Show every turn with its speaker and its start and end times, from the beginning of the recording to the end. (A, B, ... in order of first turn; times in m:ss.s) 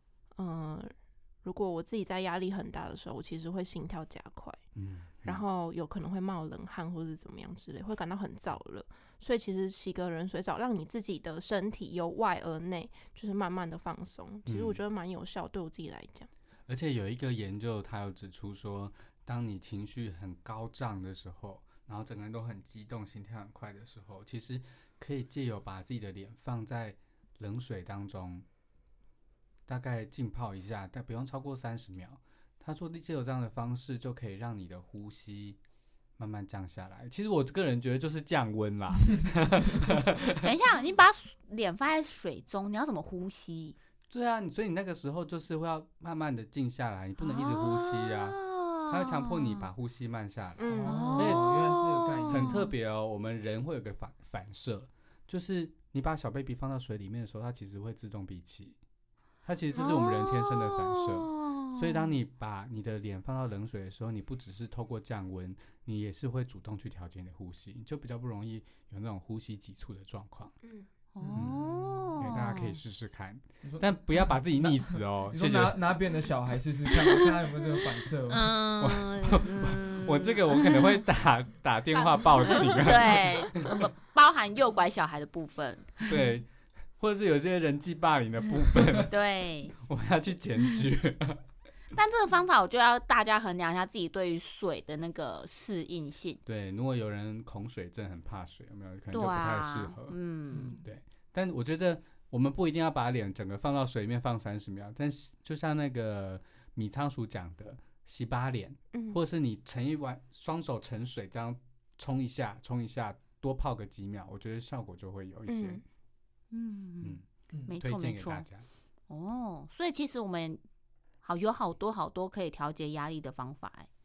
0:00.4-0:00.9 A
0:01.4-0:04.6 A
0:04.8-0:05.4 B
0:05.2-0:16.3 A
0:14.5-0:14.8 B
0:16.7-0:28.5 B
0:29.7-0:35.6 B
0:36.2-0:40.4 B
0:40.4-0:43.8 C
0:44.1-0:51.8 B
0:47.2-0:49.7 C
0:50.6-0:51.2 A
0:50.7-0:52.6 D
0:50.9-0:52.7 C
0:52.3-0:58.8 B
0:59.4-1:10.5 B
0:59.8-1:01.9 C
1:11.2-1:12.8 C
1:11.2-1:12.2 D
1:11.4-1:11.6 B
1:12.2-1:15.9 B
1:13.6-1:18.5 D
1:18.3-1:21.0 C
1:18.8-1:23.7 B
1:22.4-1:26.1 C
1:26.1-1:26.5 B
1:27.0-1:29.2 B
1:29.0-1:29.8 C
1:29.8-1:31.4 B
1:31.9-1:36.4 C
1:36.5-1:55.8 B
1:39.1-1:40.8 C
1:40.5-1:40.9 D
1:48.9-1:49.2 A
1:55.5-1:55.8 A
1:56.5-1:58.5 C
1:57.0-1:58.7 B
1:57.5-1:57.8 D
1:59.1-2:00.6 C
2:01.2-2:03.9 C